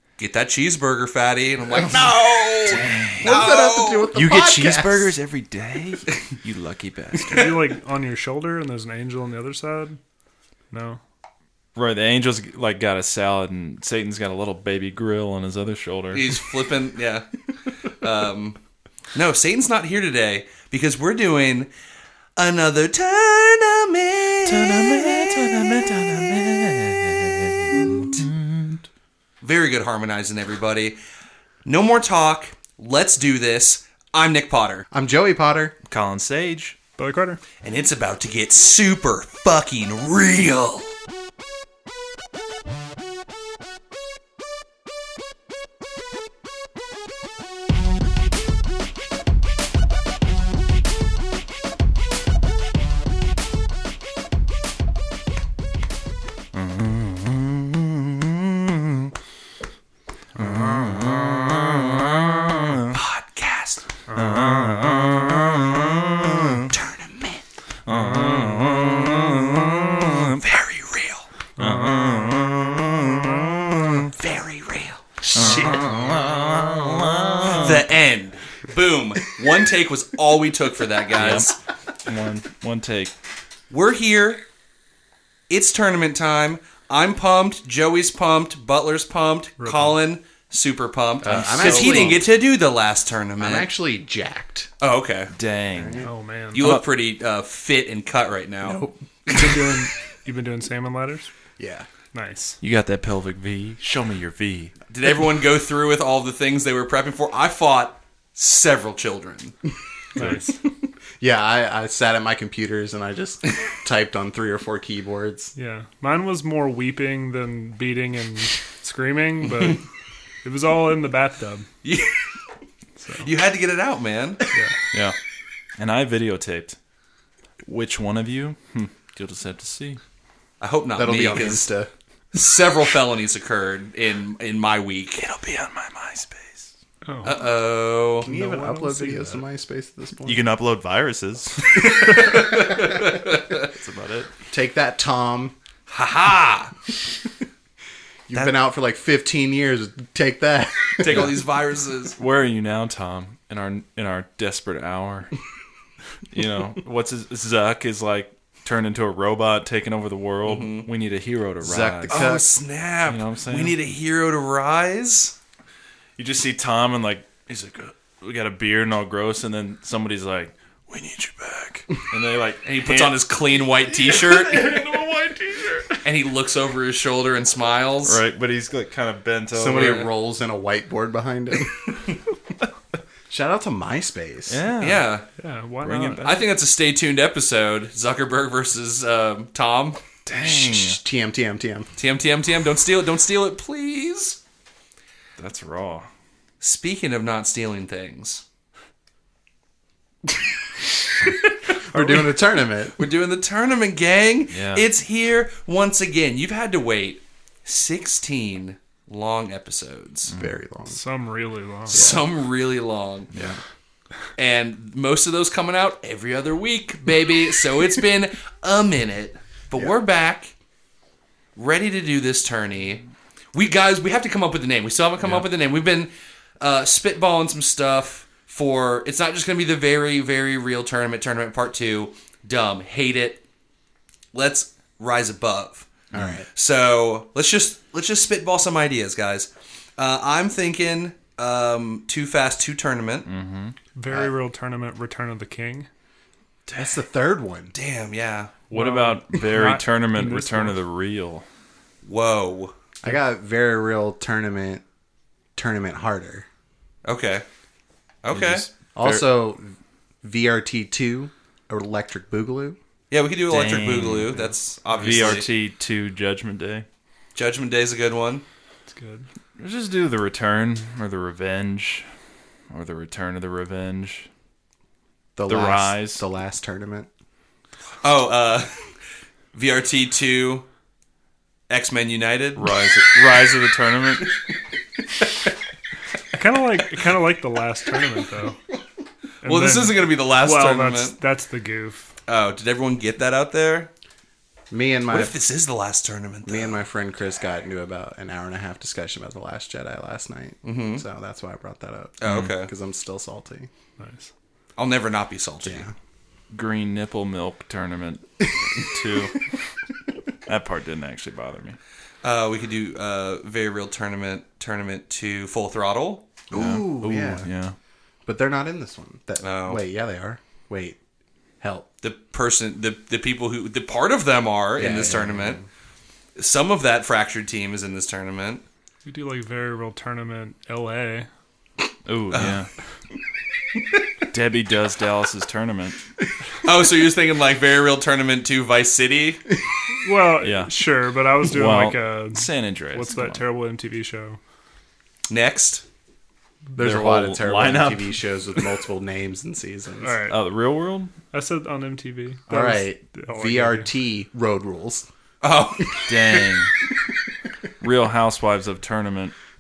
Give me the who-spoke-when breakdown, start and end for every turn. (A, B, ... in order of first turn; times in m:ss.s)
0:00.2-0:04.1 A
0:01.8-0:05.2 B
0:02.6-0:03.5 C
0:04.1-0:07.6 C
0:07.2-0:10.0 D
0:10.7-0:11.0 D
0:11.8-0:16.4 C
0:16.1-0:17.3 A
0:17.8-0:18.6 A
0:19.1-0:21.7 A
0:22.4-0:25.4 A
0:24.5-0:28.8 C
0:29.4-0:31.0 A
0:31.6-0:34.9 A
0:34.9-0:35.8 B
0:35.9-0:36.8 C
0:37.0-0:37.4 D
0:37.6-0:40.9 A
0:56.5-0:59.1 C
1:00.4-1:03.0 C
1:02.9-1:03.8 A
1:04.1-1:06.7 C
1:06.7-1:07.4 A
1:07.9-1:10.4 C
1:10.4-1:11.3 A
1:11.6-1:14.1 C
1:14.2-1:15.0 A
1:15.3-1:17.9 C
1:17.6-1:21.6 A
1:21.2-1:21.5 C
1:22.0-1:23.1 C
1:23.7-1:24.4 A
1:25.5-1:33.7 A
1:29.6-1:30.0 D
1:31.2-1:32.2 B
1:31.3-1:32.2 C
1:33.4-1:34.7 B
1:34.8-1:35.3 A
1:35.3-1:36.8 C
1:35.7-1:36.1 B
1:36.0-1:36.6 D
1:36.5-1:39.6 A
1:38.6-1:39.0 B
1:39.3-1:41.3 D
1:41.6-1:41.9 B
1:42.1-1:42.6 D
1:42.6-1:44.7 C
1:44.9-1:49.5 A
1:50.2-1:50.6 D
1:50.2-1:55.5 B
1:55.6-1:59.8 D
2:00.4-2:01.7 D
2:01.8-2:02.2 A
2:03.0-2:03.3 D
2:03.2-2:04.4 A
2:05.8-2:06.8 C
2:07.6-2:10.0 C
2:10.6-2:11.7 A
2:11.0-2:11.9 B
2:12.3-2:15.2 A
2:15.2-2:16.7 C
2:17.1-2:17.4 D
2:17.2-2:18.3 A
2:18.2-2:19.4 D
2:18.2-2:20.4 B
2:20.2-2:22.0 C
2:21.7-2:23.7 A
2:23.1-2:24.3 C
2:24.5-2:25.6 B
2:25.9-2:26.7 A
2:28.3-2:31.3 B
2:31.0-2:32.2 A
2:32.2-2:35.3 C
2:36.3-2:42.4 C
2:40.4-2:40.9 A
2:41.6-2:42.4 B
2:42.1-2:45.4 A
2:43.1-2:43.8 C
2:46.2-2:53.2 C
2:52.6-2:54.8 A
2:54.0-2:56.0 C
2:56.0-2:58.2 A
2:58.1-3:00.1 C
2:59.5-3:02.0 B
3:03.3-3:04.6 B
3:04.5-3:05.1 C
3:04.8-3:05.3 A
3:05.4-3:06.5 D
3:05.8-3:06.3 C
3:06.2-3:10.0 A
3:10.3-3:11.0 C
3:10.4-3:11.9 B
3:12.0-3:14.4 A
3:15.4-3:16.1 C
3:16.6-3:18.4 A
3:21.9-3:23.0 B
3:23.0-3:30.3 A
3:24.5-3:24.9 C
3:30.3-3:30.6 C
3:30.3-3:31.0 B
3:30.9-3:32.1 D
3:31.9-3:33.3 A
3:31.9-3:32.3 B
3:33.3-3:33.6 B
3:34.4-3:40.5 A
3:41.6-3:43.0 A
3:43.5-3:53.4 A
3:54.3-3:55.9 A
3:56.1-3:56.5 B
3:56.5-4:03.3 A
4:03.3-4:03.8 C
4:04.0-4:05.9 D
4:06.7-4:07.7 B
4:07.7-4:08.5 A
4:08.7-4:11.4 C
4:08.7-4:10.8 D
4:12.0-4:12.7 A
4:13.0-4:14.8 B
4:15.6-4:16.5 B
4:17.0-4:17.4 A
4:18.2-4:18.7 A
4:18.3-4:19.3 C
4:19.0-4:22.8 B
4:23.1-4:25.5 A
4:23.5-4:24.4 C
4:25.0-4:26.9 C
4:27.4-4:28.4 A
4:28.9-4:29.3 D
4:29.6-4:32.1 C
4:32.7-4:34.3 C
4:35.4-4:37.1 B
4:35.5-4:36.2 C
4:38.0-4:38.8 A
4:39.5-4:40.6 A
4:41.7-4:42.7 A
4:42.6-4:44.4 C
4:46.3-4:48.6 D
4:49.4-4:52.1 D
4:49.4-4:51.2 A
4:52.3-4:53.9 A
4:54.7-4:55.3 B
4:55.1-4:56.8 A
4:56.5-5:03.7 B
5:00.6-5:01.0 A
5:02.2-5:02.7 A
5:02.2-5:02.5 C
5:04.0-5:04.3 D
5:04.8-5:05.9 A
5:05.6-5:05.9 B
5:06.5-5:09.4 C
5:10.5-5:11.8 C
5:12.2-5:16.2 A
5:16.5-5:17.5 B
5:16.5-5:17.8 C
5:18.3-5:21.0 B
5:19.4-5:19.8 A
5:21.6-5:21.9 B
5:22.0-5:25.6 A
5:24.8-5:25.7 B
5:26.4-5:28.6 A
5:29.1-5:31.3 D
5:32.1-5:32.7 C
5:32.3-5:32.6 A
5:34.3-5:36.0 C
5:36.6-5:39.4 A
5:40.0-5:44.4 D
5:40.4-5:40.7 C
5:41.4-5:43.4 C
5:45.3-5:45.8 A
5:46.8-5:50.2 B
5:46.8-5:48.2 C
5:50.0-5:50.4 D
5:50.3-5:51.1 C
5:51.3-5:53.9 D
5:52.5-5:55.1 B
5:55.4-5:56.5 A
5:56.1-5:56.7 C
5:57.8-5:59.4 C